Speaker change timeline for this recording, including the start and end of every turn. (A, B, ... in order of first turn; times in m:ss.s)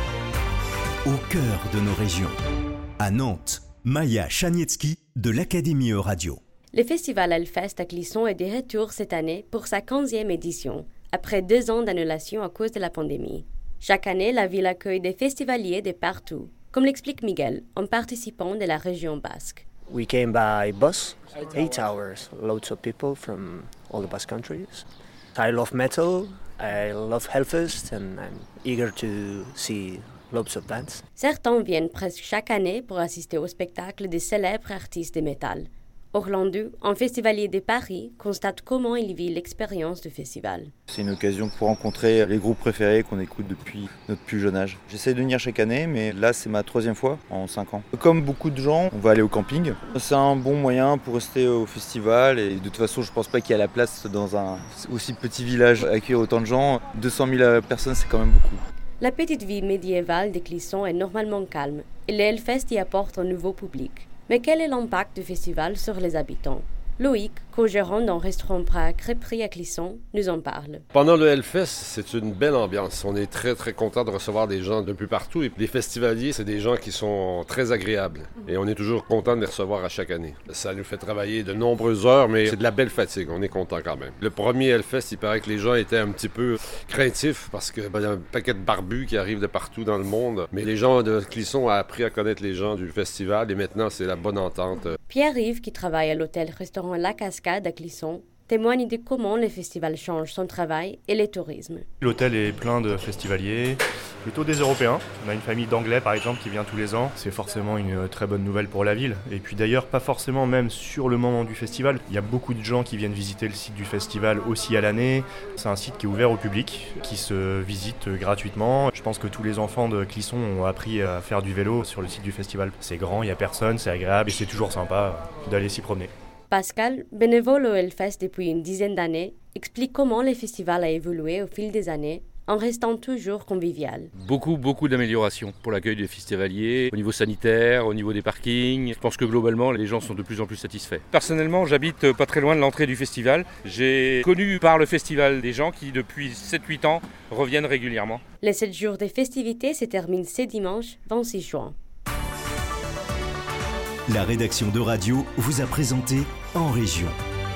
0:01.1-0:02.4 A
0:03.0-0:06.4 A
0:06.7-0:19.6 B
0:19.9-0:31.0 C
0:31.2-0:40.7 B
0:40.9-0:58.6 D
0:59.0-1:10.8 B
1:10.9-1:35.0 E
1:35.1-1:41.8 B
1:42.0-2:06.1 F
2:06.5-2:14.1 B
2:14.2-2:28.2 G
2:28.4-2:31.8 B
2:34.1-2:37.2 A